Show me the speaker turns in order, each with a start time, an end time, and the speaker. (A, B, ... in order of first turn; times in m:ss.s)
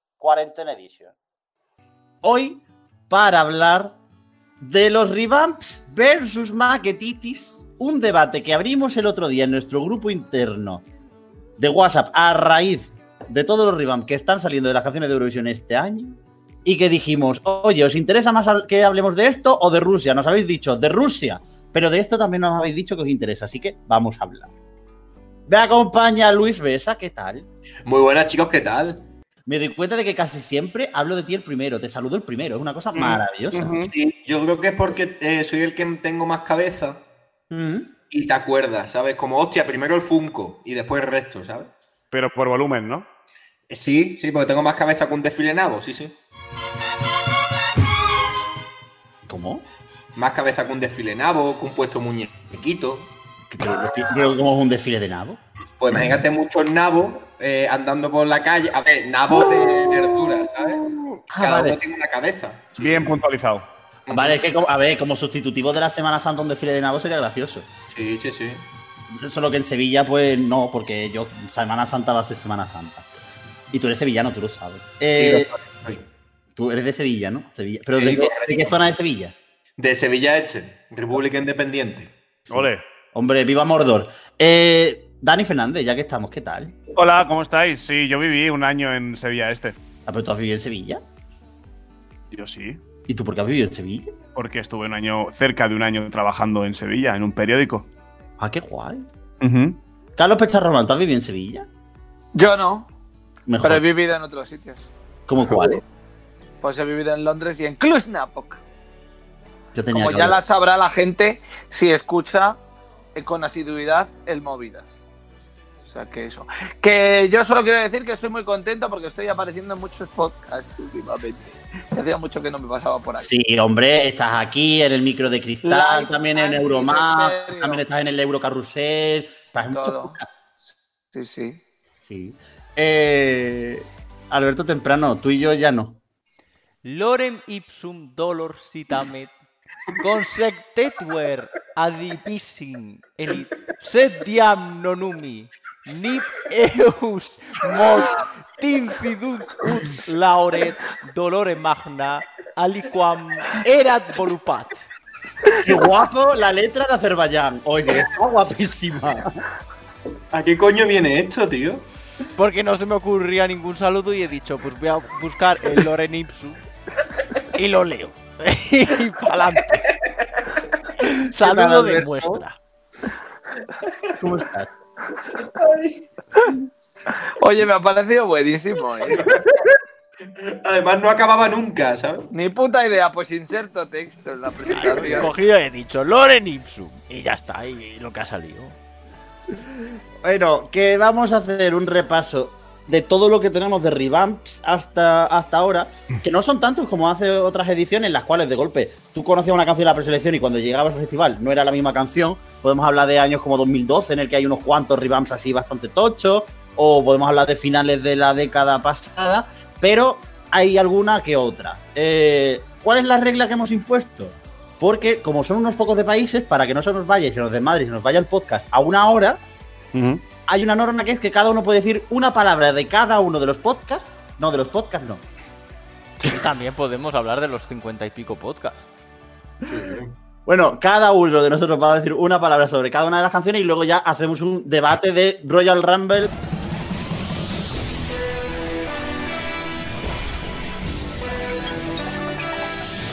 0:00.2-0:01.1 A
0:02.2-0:04.0 A
0:04.6-0:10.8 A
0:11.6-0:24.5 A
0:25.5-0:27.4 A
0:27.9-0:29.0 B
0:29.5-0:33.7 A
0:33.0-0:33.9 C
0:33.9-0:37.0 B
0:37.5-0:37.9 A
0:38.1-0:41.7 B
0:42.1-0:43.1 C
0:43.7-0:46.2 B
0:49.3-0:49.6 A
0:50.2-0:53.1 B
0:53.5-0:55.4 A
0:55.8-1:00.8 B
1:01.3-1:01.8 A
1:01.4-1:03.1 B
1:02.8-1:03.7 C
1:04.1-1:04.4 B
1:04.1-1:07.6 A
1:07.9-1:08.6 B
1:09.1-1:13.1 A
1:13.7-1:15.5 A
1:15.1-1:16.0 B
1:16.6-1:19.3 A
1:18.0-1:18.8 B
1:19.8-1:22.1 B
1:22.5-1:26.8 A
1:22.5-1:22.8 C
1:27.0-1:29.8 C
1:30.1-1:31.0 A
1:32.3-1:32.8 C
1:33.1-1:34.1 A
1:34.4-1:37.9 C
1:38.4-1:39.1 A
1:39.4-1:39.8 C
1:40.2-1:41.7 A
1:42.4-1:42.9 D
1:43.5-1:43.8 A
1:43.6-1:44.9 D
1:45.3-1:45.8 A
1:45.5-1:45.8 B
1:46.6-1:48.6 D
1:49.7-1:50.4 A
1:49.9-1:52.6 D
1:53.2-1:54.9 D
1:55.9-2:03.3 D
2:03.2-2:10.3 A
2:05.6-2:07.8 D
2:09.7-2:10.2 D
2:11.1-2:11.6 D
2:12.1-2:16.0 A
2:16.8-2:19.3 E
2:19.9-2:34.8 E
2:35.6-2:39.4 A
2:40.3-2:41.8 B
2:42.4-2:46.6 E
2:47.5-2:49.9 E
2:51.1-2:52.6 E
2:51.4-2:52.4 A
2:54.2-2:54.7 A
2:55.4-2:56.0 B
2:57.4-2:59.3 D
2:59.2-2:59.7 B
3:00.5-3:02.3 B
3:02.3-3:05.4 D
3:04.7-3:08.8 E
3:10.2-3:39.4 A
3:39.9-3:40.2 C
3:40.5-3:45.2 A
3:46.2-3:48.9 E
3:49.6-3:50.2 B
3:50.5-3:56.3 A